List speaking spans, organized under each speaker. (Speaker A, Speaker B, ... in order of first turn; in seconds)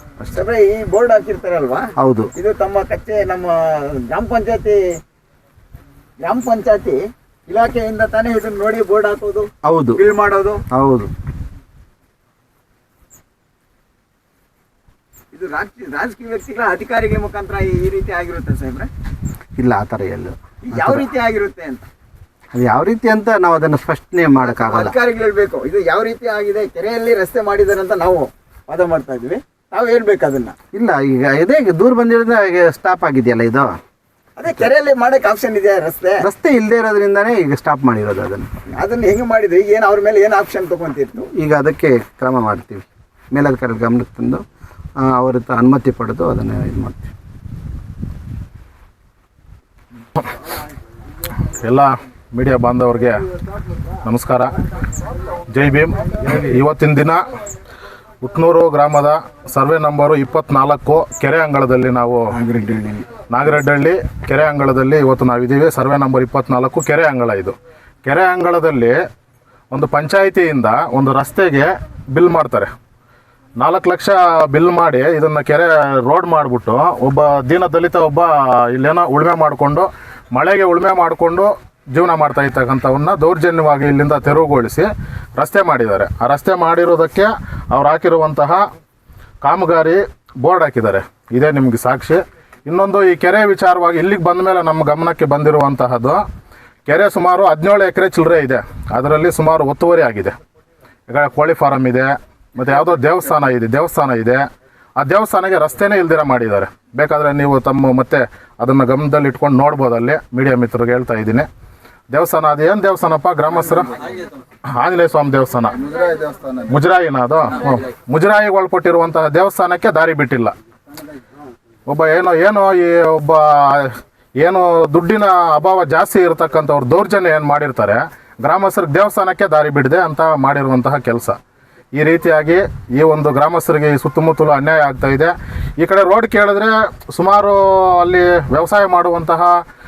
Speaker A: 0.3-4.8, 6.2-7.0, 7.5-10.6, 15.3-18.9, 20.6-21.8, 24.4-30.6, 34.4-36.2, 38.7-41.3, 62.3-63.0
Speaker B: 2.0-2.3, 9.7-10.0, 10.7-11.1, 19.6-21.1, 22.5-24.9, 30.7-33.7, 36.2-38.5, 41.3-44.4, 45.0-47.1
Speaker C: 51.6-53.2, 54.0-54.5, 55.5-57.2, 58.2-62.2, 63.3-69.0, 69.7-72.7, 73.6-88.6, 89.4-96.2, 96.8-100.3, 101.1-104.4, 105.0-111.5, 112.1-113.9, 114.7-120.5, 121.9-131.4, 131.9-139.5